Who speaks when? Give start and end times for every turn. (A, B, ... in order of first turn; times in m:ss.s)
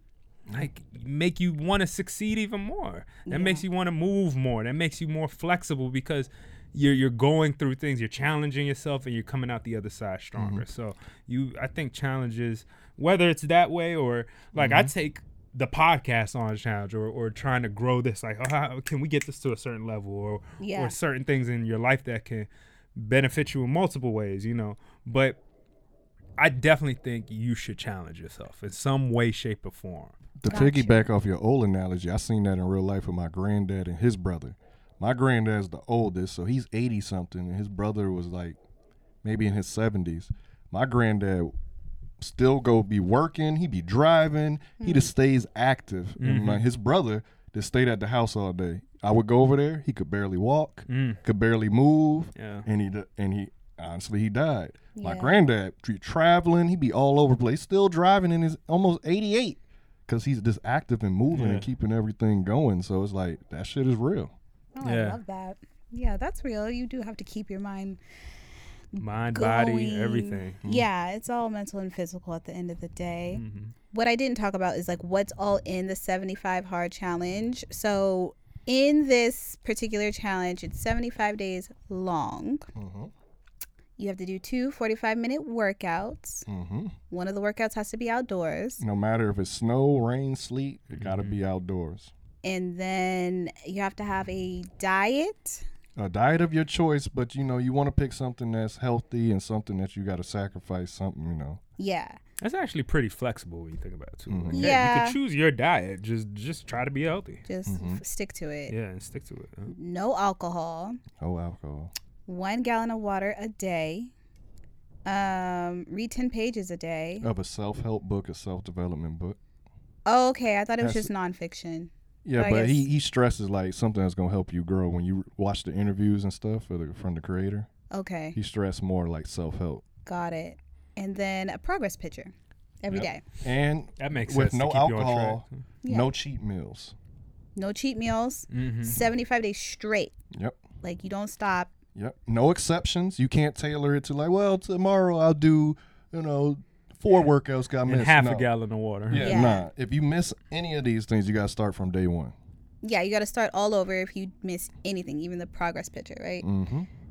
0:00.5-0:25.4 A
0:03.3-0:03.6 B
0:10.4-0:10.6 C
0:14.6-0:14.9 C
0:20.6-0:21.0 B
0:26.4-0:30.2 A
0:30.4-0:38.6 C
0:30.5-0:31.0 B
0:39.2-0:41.5 C
0:42.2-1:04.3 C
0:44.8-0:45.1 B
0:46.2-0:46.6 A
0:50.9-0:51.2 A
0:52.4-0:52.7 A
0:55.0-0:55.4 B
1:01.3-1:01.7 A
1:04.8-1:08.0 B
1:04.8-1:05.2 A
1:09.0-1:13.4 B
1:09.0-1:10.6 A
1:13.3-1:13.7 A
1:13.9-1:22.7 B
1:22.8-1:23.1 C
1:24.0-1:26.5 B
1:26.5-1:27.0 C
1:27.1-1:28.8 B
1:28.8-1:32.1 C
1:31.0-1:31.4 A
1:32.4-1:35.6 B
1:36.0-1:41.6 C
1:41.8-1:42.2 B
1:42.4-1:47.4 A
1:44.3-1:44.8 C
1:44.5-1:45.2 B
1:47.5-1:48.7 B
1:47.7-1:48.0 C
1:48.7-1:49.7 A
1:49.7-1:51.0 B
1:51.2-1:51.9 C
1:52.3-1:54.1 B
1:55.1-1:57.3 B
1:57.2-1:59.4 C
2:00.1-2:02.9 B
2:00.8-2:01.1 C
2:02.2-2:07.7 C
2:07.9-2:08.4 B
2:08.4-2:09.8 C
2:10.1-2:13.2 B
2:12.9-2:16.9 C
2:14.0-2:15.6 A
2:15.8-2:16.1 B
2:17.6-2:20.2 B
2:18.5-2:19.0 A
2:20.3-2:20.6 C
2:20.8-2:21.7 B
2:22.0-2:28.5 C
2:27.9-2:29.5 A
2:29.1-2:32.3 C
2:29.2-2:29.7 B
2:32.8-2:36.5 B
2:36.4-2:36.9 C